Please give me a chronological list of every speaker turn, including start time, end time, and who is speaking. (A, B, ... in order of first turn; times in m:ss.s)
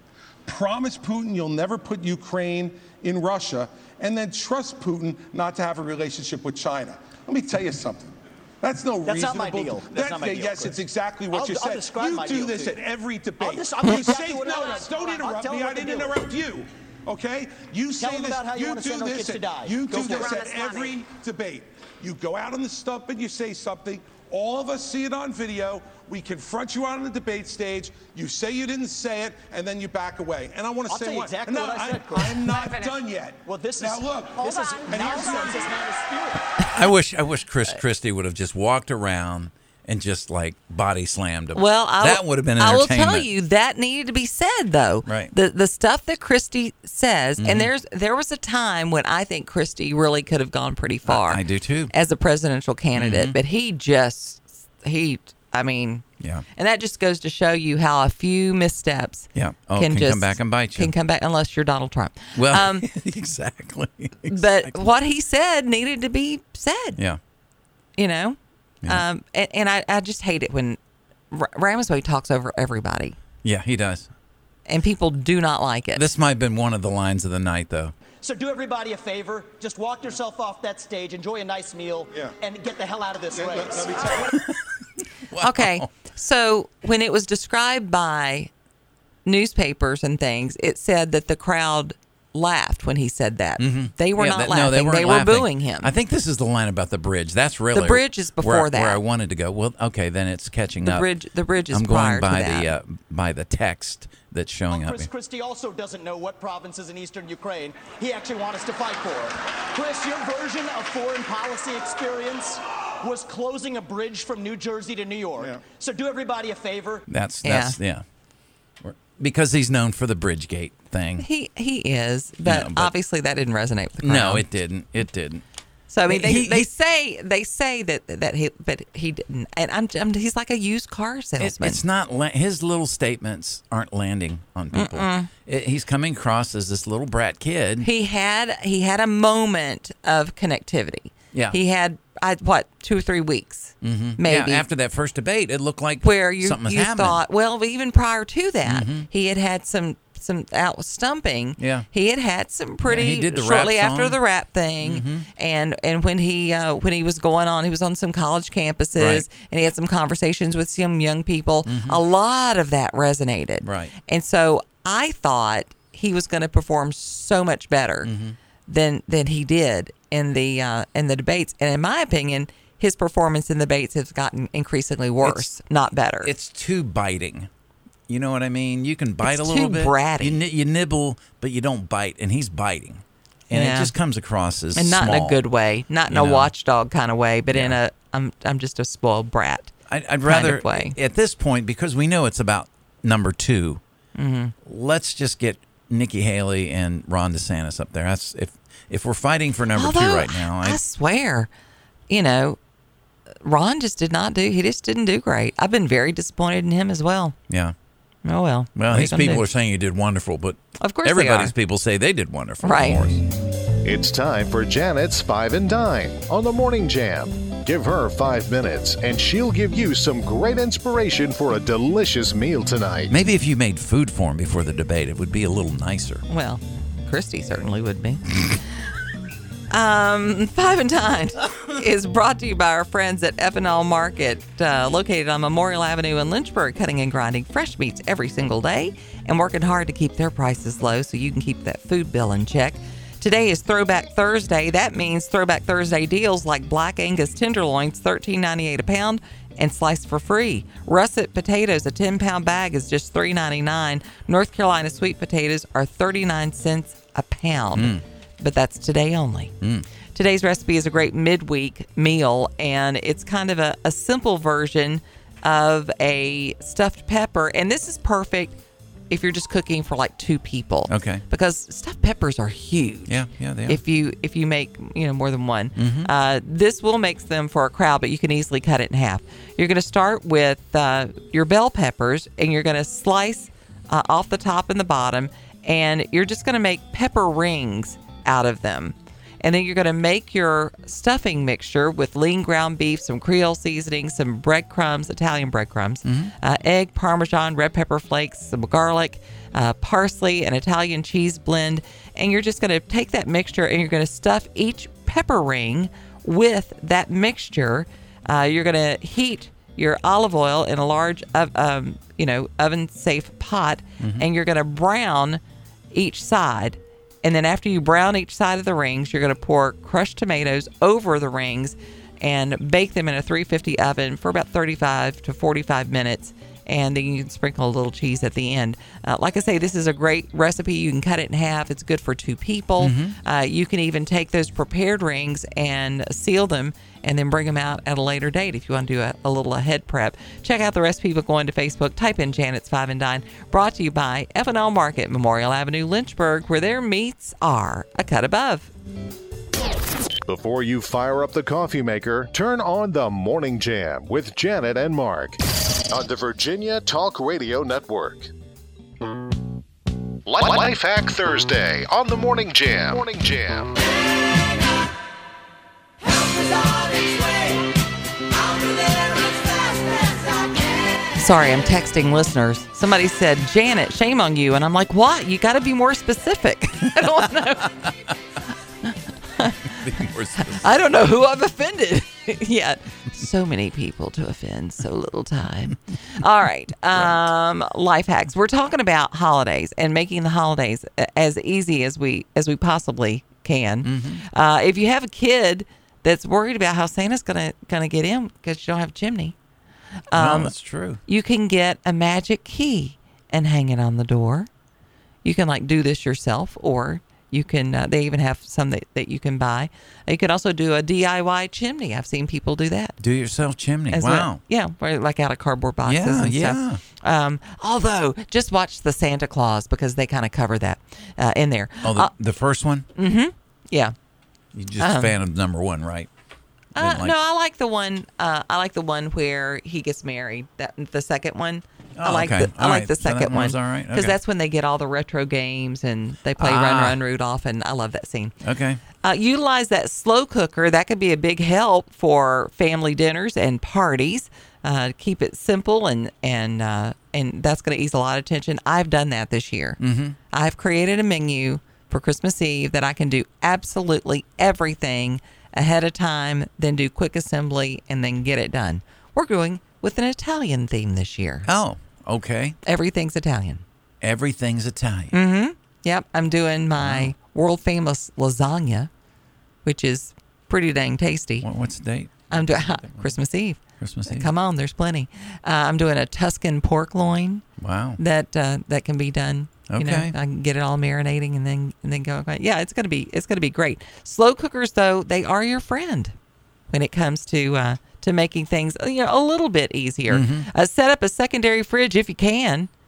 0:00.5-0:35.7 A
0:09.0-0:12.8 B
0:13.4-0:16.3 B
0:18.0-0:21.0 B
0:30.9-0:32.9 B
0:33.4-0:36.7 B
0:36.7-0:43.3 C
0:41.5-0:56.0 D
0:45.1-0:45.3 C
0:47.4-0:47.7 C
0:51.1-0:51.9 C
0:53.0-0:53.4 C
0:56.2-0:56.4 C
0:56.6-1:02.9 D
0:59.4-1:00.9 C
1:02.4-1:04.9 C
1:04.3-1:07.0 D
1:08.0-1:10.8 D
1:11.3-1:13.2 D
1:13.4-1:14.1 C
1:14.7-1:16.0 D
1:16.0-1:17.9 C
1:18.2-1:24.4 B
1:23.3-1:24.4 A
1:25.3-1:25.9 C
1:25.4-1:28.5 D
1:29.2-1:35.9 D
1:33.6-1:41.1 C
1:37.7-1:39.0 D
1:40.8-1:42.7 D
1:41.7-1:45.1 C
1:44.7-1:57.1 B
1:57.1-1:58.0 C
1:57.4-1:57.8 D
1:58.8-2:01.3 C
2:01.2-2:04.4 D
2:02.4-2:02.9 C
2:04.0-2:05.4 C
2:05.9-2:11.8 D
2:06.1-2:06.7 C
2:11.4-2:17.9 C
2:14.7-2:15.3 D
2:17.8-2:24.6 D
2:23.8-2:27.2 C
2:26.0-2:48.1 D
2:28.6-2:29.1 C
2:31.6-2:31.9 C
2:32.8-2:34.2 C
2:34.8-2:35.3 C
2:39.0-2:39.3 C
2:41.7-2:42.0 C
2:43.6-2:43.9 C
2:48.0-2:48.4 C
2:48.7-2:56.3 D
2:55.2-2:55.5 C
2:56.2-2:57.5 C
2:58.1-3:05.4 C
2:59.2-3:00.4 D
3:03.5-3:03.9 D
3:04.8-3:09.7 D
3:06.1-3:06.5 C
3:07.5-3:07.8 C
3:09.9-3:13.8 C
3:10.2-3:11.0 D
3:14.2-3:14.5 D
3:14.6-3:20.8 C
3:19.7-3:21.5 D
3:22.1-3:22.6 D
3:23.4-3:27.4 D
3:27.5-3:27.8 C
3:28.2-3:29.4 D
3:28.8-3:33.2 C
3:30.8-3:31.5 D
3:32.6-3:33.0 D
3:33.8-3:43.2 E
3:43.1-3:46.2 C
3:46.3-3:48.4 D
3:49.7-4:19.5 D
4:17.8-4:18.0 C
4:19.6-4:19.9 C
4:20.1-4:28.6 D
4:29.1-5:15.4 D
4:30.9-4:31.2 C
4:33.1-4:33.8 C
4:35.8-4:36.1 C
4:56.0-4:56.3 C
5:14.0-5:14.3 C
5:15.9-5:48.7 D
5:32.8-5:33.2 C
5:50.3-5:58.3 E
6:00.2-6:03.8 E
6:06.3-6:07.5 B
6:11.2-6:17.9 D
6:18.9-6:19.8 D
6:19.6-6:20.8 C
6:20.4-6:39.4 D
6:33.8-6:34.2 C
6:40.1-6:40.5 D
6:40.1-6:41.0 C
6:41.1-6:44.5 D
6:45.2-6:53.0 D
6:53.0-6:54.4 C
6:53.9-7:02.1 D
6:55.8-6:56.8 C
7:01.8-7:02.9 C
7:03.0-7:03.9 D
7:04.5-7:06.1 C
7:04.8-7:05.2 D
7:06.8-7:07.2 C
7:06.8-7:18.4 D
7:12.0-7:14.2 C
7:16.4-7:17.0 C
7:18.4-7:18.8 C
7:19.0-7:29.8 D
7:29.8-7:30.2 C
7:30.3-7:41.5 D
7:41.5-7:42.6 C
7:42.6-7:43.6 D
7:44.0-7:45.2 C
7:45.1-7:48.9 D
7:46.8-7:47.1 C
7:49.6-7:51.5 D
7:51.4-7:53.0 C
7:52.3-7:57.4 D
7:53.8-7:54.3 C
7:57.6-7:58.0 C
7:58.0-8:06.1 D
7:59.7-8:00.1 C
8:06.7-8:12.7 D
8:10.1-8:10.5 C